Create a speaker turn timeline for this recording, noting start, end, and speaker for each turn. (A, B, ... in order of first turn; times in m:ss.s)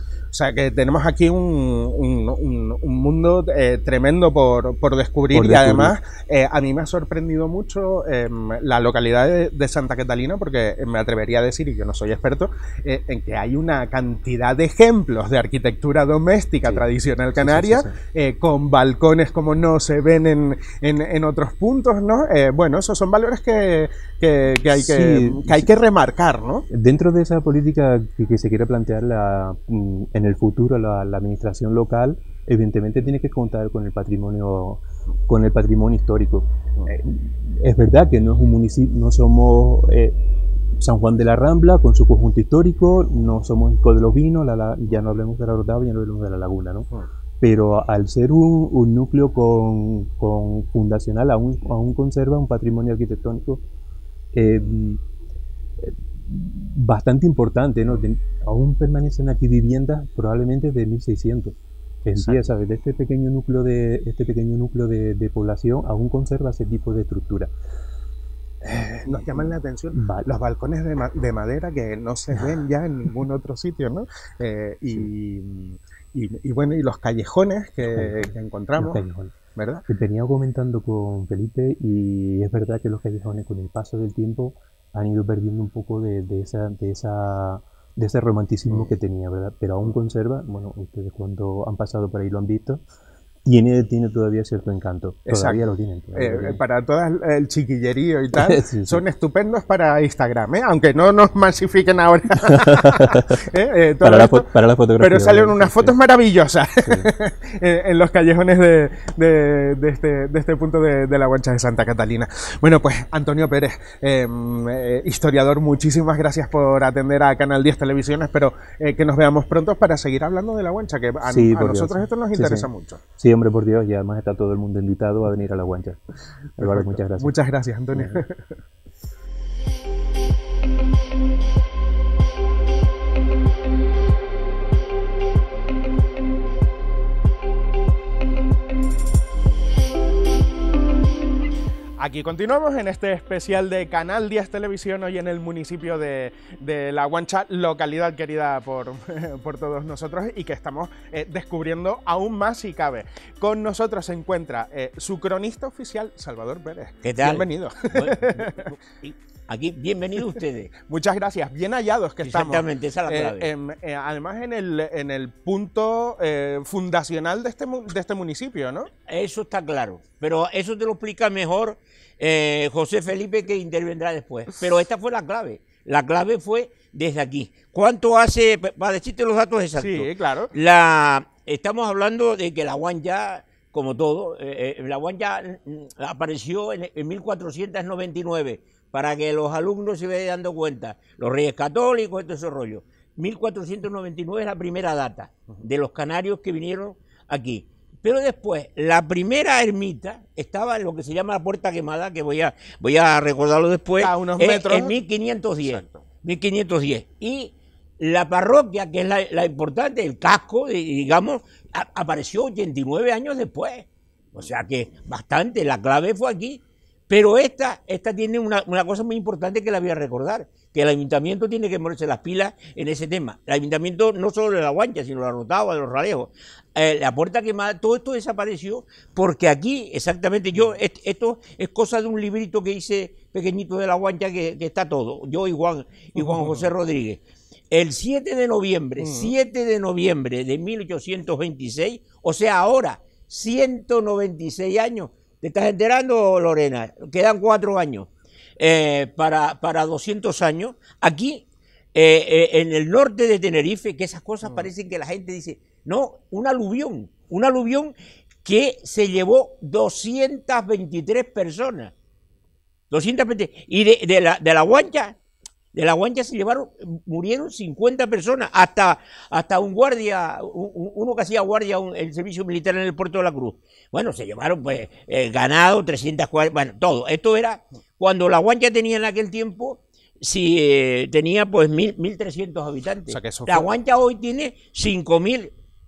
0:00.3-0:26.6 A
0:05.3-0:05.9 B
0:17.4-0:18.0 B
0:24.8-0:25.7 B
0:26.7-0:40.2 B
0:40.8-0:46.9 B
0:47.4-0:53.6 B
0:54.3-0:55.0 B
0:55.8-1:07.5 B
1:02.2-1:02.4 A
1:08.7-1:19.0 A
1:08.7-1:10.3 B
1:17.8-1:19.3 B
1:19.6-1:19.8 A
1:19.9-1:32.8 B
1:33.4-1:36.6 B
1:35.3-1:35.6 A
1:36.1-2:03.0 A
1:38.3-1:39.0 B
1:42.4-1:43.4 B
1:44.0-1:46.0 B
2:01.3-2:06.0 B
2:06.6-2:07.3 B
2:06.6-2:08.4 A
2:07.9-2:08.2 B
2:22.0-2:38.7 A
2:37.0-2:40.7 C
2:40.8-2:48.9 A
2:42.2-2:43.5 C
2:49.0-4:21.9 C
2:59.8-3:00.5 A
3:24.0-3:25.0 A
3:25.6-3:26.1 A
3:56.2-3:56.7 A
3:59.0-3:59.3 A
4:14.4-4:14.7 A
4:22.9-4:25.2 C
4:25.7-4:45.5 C
4:43.1-4:43.7 A